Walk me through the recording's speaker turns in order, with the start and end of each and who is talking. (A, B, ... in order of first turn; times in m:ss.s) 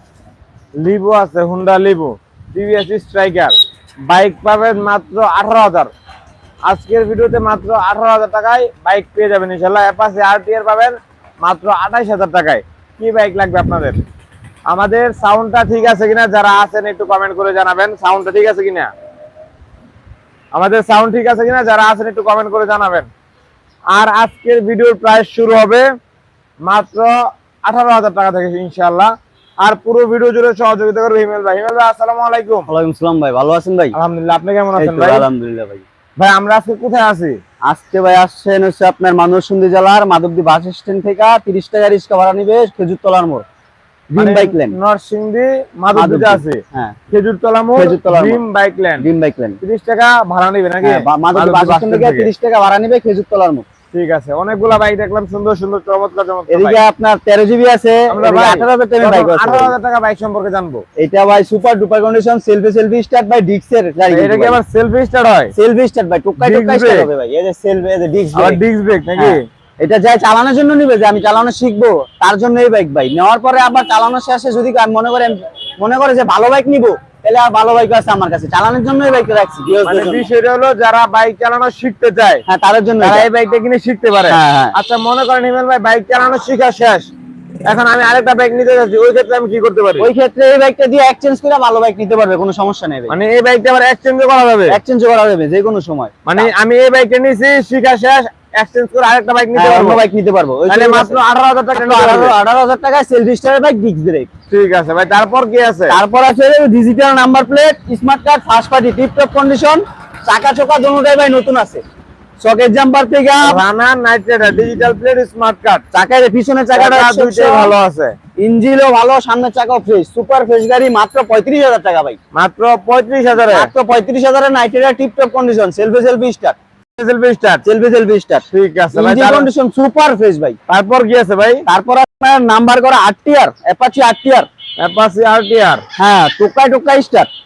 0:00.8-0:05.9 A
0:06.6-0:14.0 A
0:14.7-0:18.9 A
0:20.5-0:23.1 A
0:23.9-0:25.9 A
0:26.6-0:32.7 A
0:32.7-0:34.0 B
0:33.9-0:35.3 A
0:34.8-0:35.8 B
0:36.2-0:37.4 A
0:37.6-0:43.4 B
0:44.1-0:44.8 B
0:44.2-0:49.1 A
0:45.9-0:47.0 B
0:47.7-0:48.4 B
0:49.0-0:49.6 B
0:49.6-0:52.3 A
0:50.8-0:53.6 B
0:53.9-0:56.8 A
0:56.5-0:59.7 B
0:58.1-1:00.8 A
1:01.0-1:04.6 B
1:04.1-1:05.5 A
1:05.5-1:08.6 B
1:06.4-1:07.1 A
1:08.3-1:09.4 A
1:09.2-1:20.2 B
1:19.8-1:22.4 A
1:22.5-1:23.3 B
1:23.0-1:27.1 A
1:24.3-1:24.7 B
1:27.6-1:30.1 A
1:30.0-1:33.1 B
1:33.1-1:34.8 A
1:34.7-1:36.5 B
1:36.2-1:40.0 A
1:39.5-1:41.2 B
1:40.7-1:42.3 A
1:41.7-1:44.3 B
1:44.5-1:46.0 A
1:45.9-1:51.8 B
1:52.4-1:53.6 B
1:53.4-1:55.8 A
1:55.9-1:57.7 B
1:56.7-1:58.2 A
1:58.4-2:02.2 B
2:02.3-2:03.7 A
2:03.3-2:06.6 B
2:07.0-2:07.6 A
2:07.6-2:10.6 B
2:08.5-2:09.5 A
2:10.7-2:11.6 A
2:11.6-2:14.5 B
2:14.8-2:15.8 A
2:16.0-2:17.3 B